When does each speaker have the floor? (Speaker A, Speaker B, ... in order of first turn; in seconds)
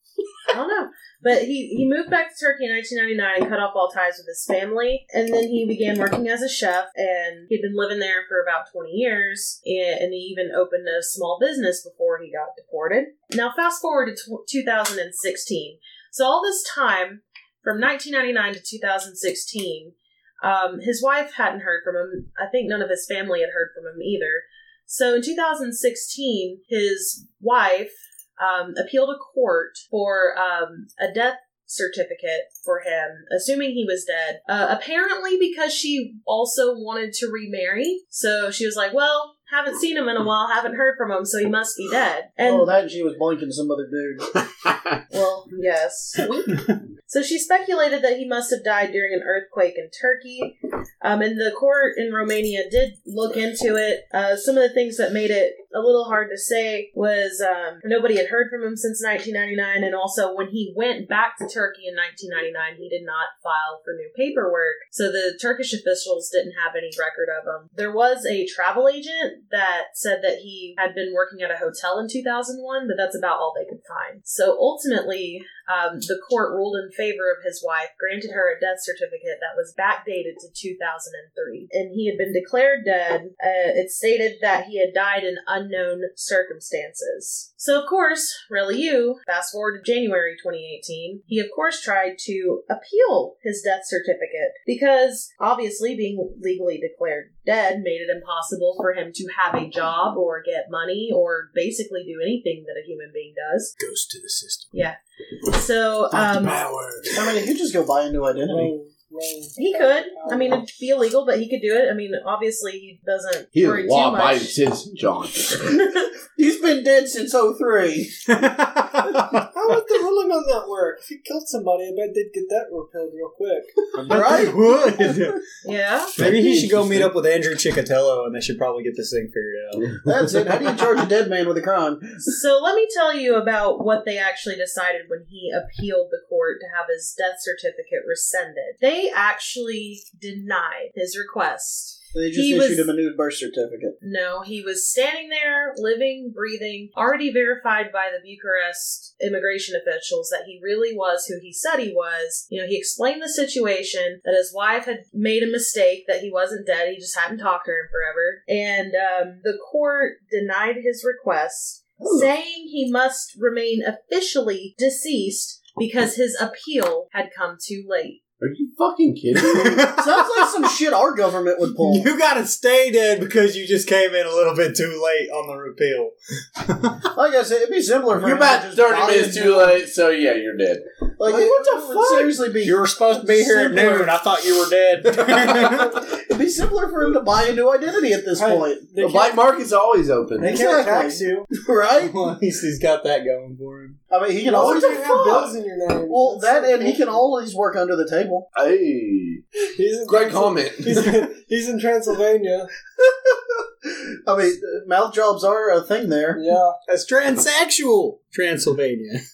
Speaker A: 0.5-42.7, 45.1-46.5, 47.1-103.7, 104.7-106.6, 109.5-114.5, 125.6-126.1, 132.2-142.9, 144.0-168.2
Speaker B: 42.4-44.3, 107.1-108.7, 116.3-118.3, 124.0-125.4, 126.2-127.0, 130.0-132.3, 142.1-143.9, 169.7-172.1, 177.1-179.8, 181.2-184.2, 185.7-188.8, 190.4-192.2, 194.1-195.5, 196.1-198.4, 203.8-206.4
Speaker C: 103.8-104.7, 106.2-107.2, 118.3-119.5, 124.0-125.4, 126.1-130.0, 169.4-170.5, 171.8-177.0, 182.5-185.9, 192.0-194.0, 206.9-209.2
Speaker D: 108.5-110.6, 119.5-123.8, 181.3-182.3, 188.3-189.4, 190.4-191.2, 194.4-197.1, 199.8-202.7, 206.3-206.8
Speaker E: 113.5-115.8, 168.4-169.9, 178.2-180.8, 189.0-190.5, 198.5-199.4, 200.1-201.1